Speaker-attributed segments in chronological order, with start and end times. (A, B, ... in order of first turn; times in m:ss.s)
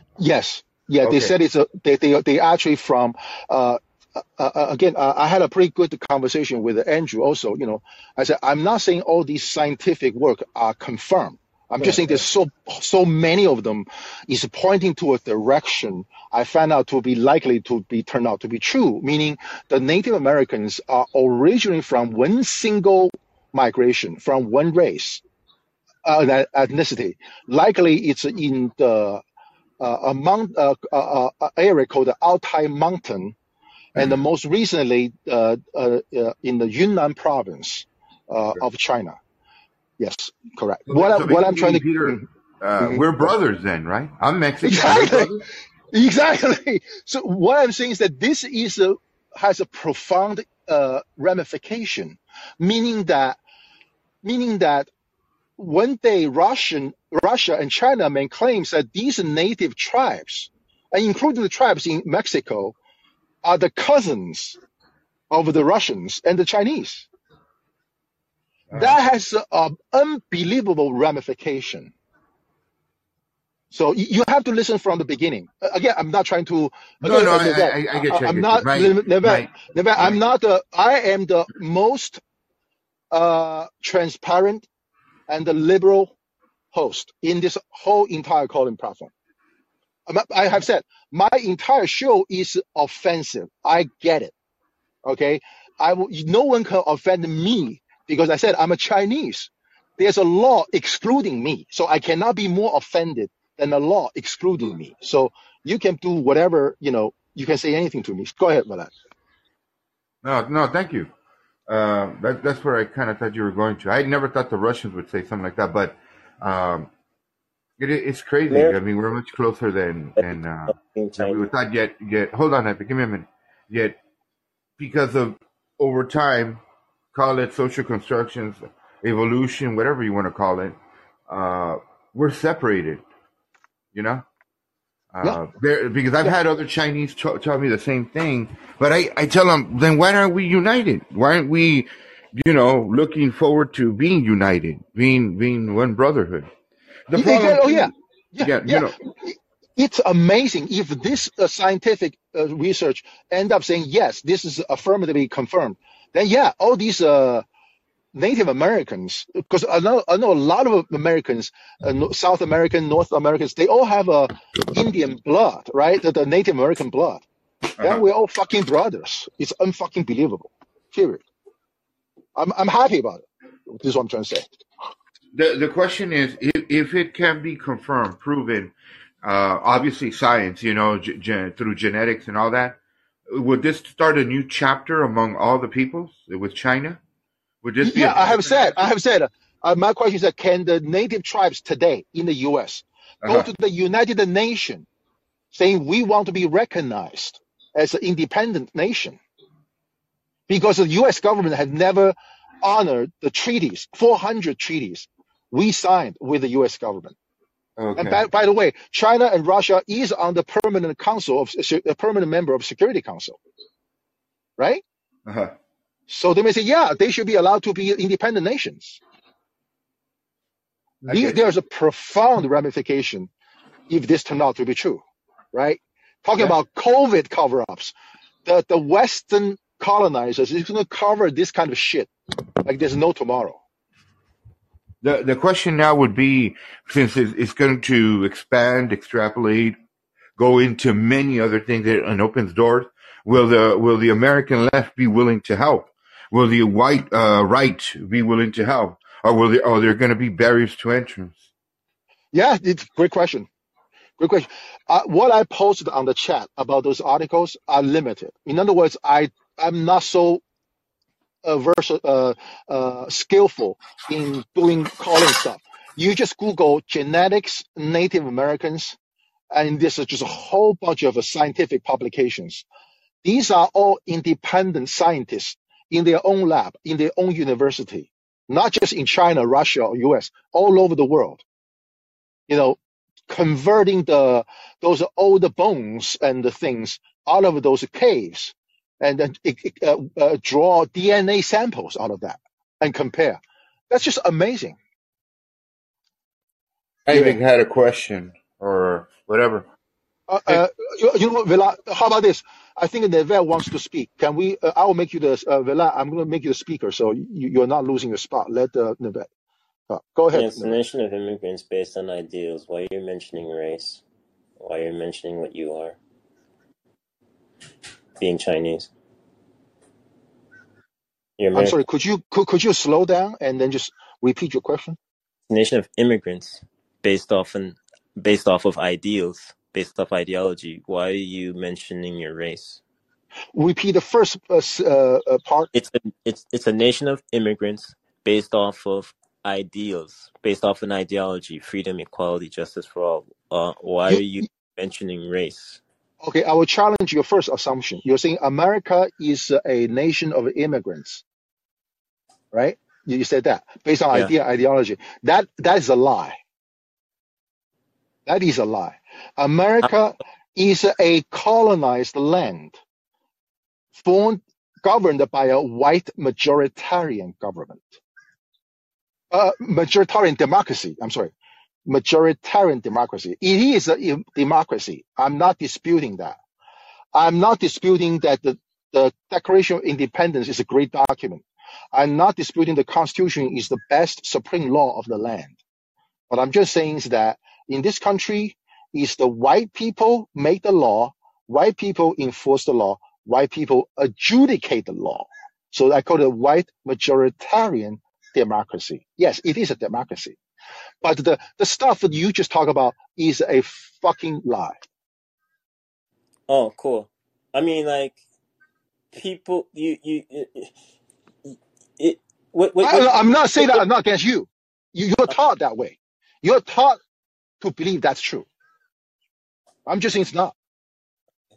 0:00.2-0:25.2 A
0:01.0-0:01.3 B
0:26.0-0:29.2 A
0:29.8-0:33.4 A
0:34.0-0:39.2 A
0:40.0-0:42.2 A
0:40.9-0:45.4 B
0:42.8-0:43.3 A
0:44.6-0:45.3 A
0:45.9-0:53.4 A
0:54.2-0:54.9 A
0:55.6-1:02.8 A
1:03.4-1:04.6 A
1:05.3-1:07.1 A
1:08.7-1:09.0 B
1:08.7-1:11.9 A
1:13.7-1:22.2 A
1:17.0-1:20.2 B
1:23.1-1:24.7 A
1:25.3-1:26.2 A
1:26.7-1:29.1 A
1:30.1-1:34.3 A
1:35.1-1:48.9 A
1:50.2-1:51.1 B
1:51.7-1:56.9 B
1:57.8-2:04.0 B
1:58.5-1:58.8 C
2:00.2-2:01.4 C
2:04.8-2:06.6 B
2:07.1-2:13.0 B
2:13.9-2:14.2 B
2:15.1-2:26.5 B
2:27.1-2:27.9 B
2:27.1-2:37.4 A
2:28.4-2:29.0 B
2:38.1-2:47.2 A
2:47.8-2:51.2 A
2:52.4-2:54.5 A
2:55.3-3:02.8 B
3:03.3-3:07.0 B
3:07.6-3:08.8 B
3:07.8-3:14.9 A
3:13.2-3:13.5 B
3:15.5-3:19.2 A
3:20.5-3:27.2 A
3:27.8-3:28.3 B
3:28.0-3:33.4 A
3:34.6-3:34.8 A
3:35.3-3:35.5 B
3:36.1-3:39.0 A
3:41.0-3:41.5 B
3:41.1-3:43.3 A
3:43.9-3:47.9 A
3:48.4-3:52.1 A
3:52.6-3:53.6 A
3:55.0-3:59.8 B
4:00.4-4:11.4 B
4:12.3-4:13.5 A
4:14.2-4:20.4 A
4:21.4-4:29.0 A
4:29.5-4:32.6 A
4:33.2-4:41.4 A
4:42.5-4:54.8 A
4:57.1-4:59.7 B
4:57.1-4:57.4 A
5:00.3-5:09.3 A
5:09.9-5:10.8 A
5:10.3-5:14.0 C
5:14.6-5:16.0 C
5:18.2-5:18.9 C
5:21.4-5:21.8 C
5:21.6-5:25.0 A
5:25.5-5:32.8 C
5:33.5-5:35.7 A
5:35.7-5:45.8 C
5:46.2-5:51.2 A
5:52.5-5:56.4 A
5:58.3-6:02.8 A
6:04.0-6:08.0 A
6:09.3-6:11.3 A
6:11.9-6:16.4 A
6:17.1-6:25.6 A
6:26.3-6:40.4 A
6:41.0-6:44.8 A
6:46.5-6:48.2 C
6:49.1-6:50.7 C
6:51.5-6:53.8 C
6:52.8-6:57.0 A
6:57.6-6:58.5 A
6:59.9-7:00.6 A